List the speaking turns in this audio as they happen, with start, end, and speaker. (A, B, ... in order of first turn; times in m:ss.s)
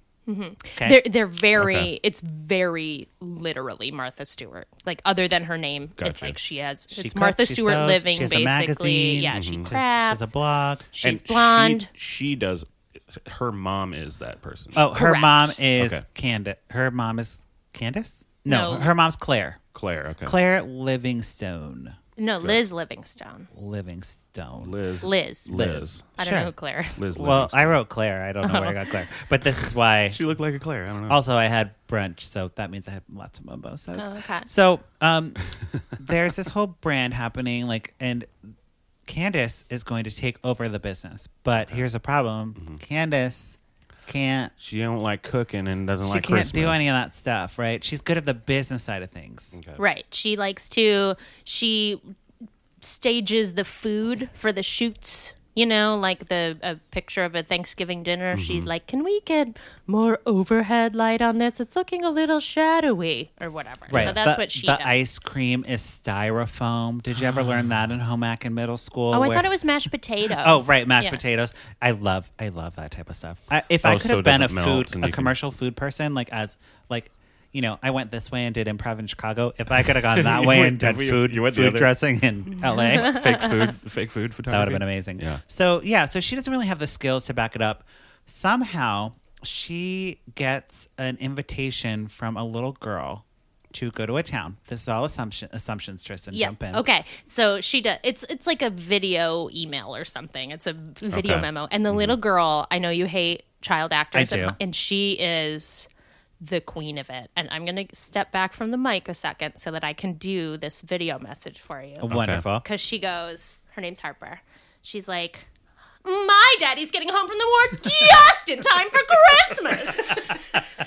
0:00.3-0:10.3 A
0:01.6-0:01.9 B
0:06.0-0:06.4 B
0:06.9-0:10.9 C
0:09.3-0:09.7 B
0:10.9-0:11.9 A
0:11.0-0:14.8 B
0:14.7-0:19.6 C
0:14.9-0:15.6 A
0:15.8-0:16.0 B
0:18.5-0:18.9 A
0:19.7-0:20.4 B
0:20.2-0:22.0 C
0:22.2-0:23.5 A
0:23.5-0:24.8 C
0:24.6-0:26.0 B
0:25.0-0:25.5 A
0:25.5-0:26.5 C
0:26.2-0:27.0 A
0:27.0-0:27.8 B
0:27.1-0:30.2 C
0:28.4-0:29.1 A
0:30.0-0:31.2 B
0:31.1-0:35.4 C
0:34.0-0:34.5 A
0:35.9-0:38.5 C
0:39.0-0:44.5 C
0:44.6-0:46.8 B
0:46.0-0:49.5 C
0:49.5-0:49.8 B
0:49.8-0:52.0 A
0:52.8-1:05.0 A
0:58.3-0:58.7 B
1:03.9-1:04.1 B
1:03.9-1:09.5 C
1:09.1-1:11.2 A
1:10.4-1:23.4 C
1:13.8-1:15.3 B
1:20.1-1:22.0 B
1:22.9-1:25.4 B
1:24.5-1:36.8 C
1:36.3-1:45.9 A
1:41.1-1:42.1 B
1:44.1-1:44.6 C
1:46.4-1:52.1 A
1:52.0-1:52.6 C
1:52.1-1:52.4 B
1:52.6-1:55.5 A
1:56.0-2:00.4 A